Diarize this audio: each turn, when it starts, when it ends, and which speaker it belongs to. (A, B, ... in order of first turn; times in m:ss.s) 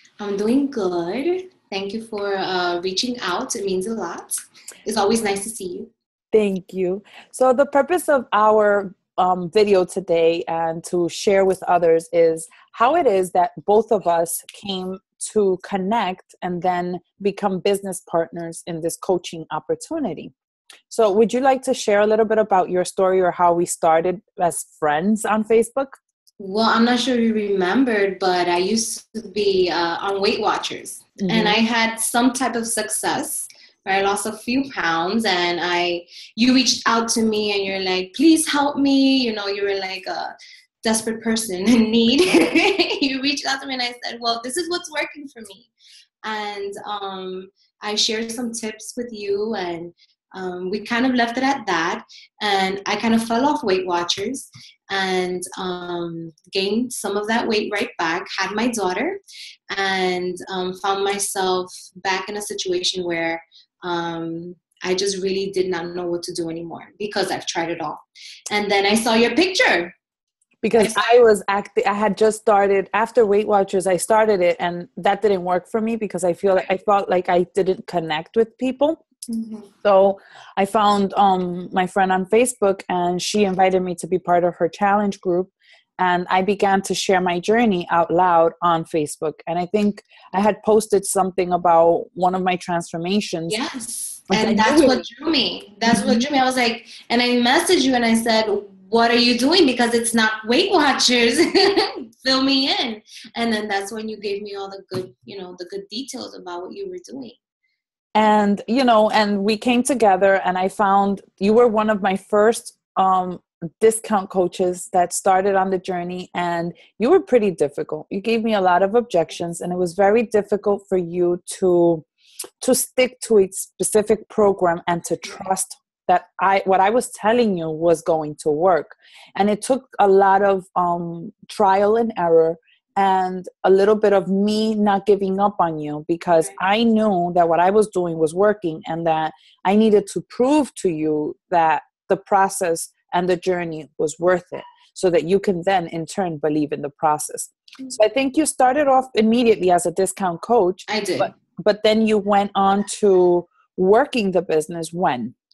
0:00.2-0:05.9 A
0:06.3-0:20.3 B
0:20.9-0:26.0 B
0:26.4-0:45.7 A
0:31.2-0:31.6 B
0:46.2-0:59.2 A
0:59.7-1:09.9 A
1:10.6-1:19.0 B
1:10.8-1:11.0 A
1:19.3-1:19.7 A
1:19.8-1:33.6 B
1:33.5-1:47.4 A
1:34.3-1:35.0 B
1:35.8-1:36.2 B
1:48.1-2:02.0 B
2:02.6-2:35.3 B
2:30.9-2:31.3 A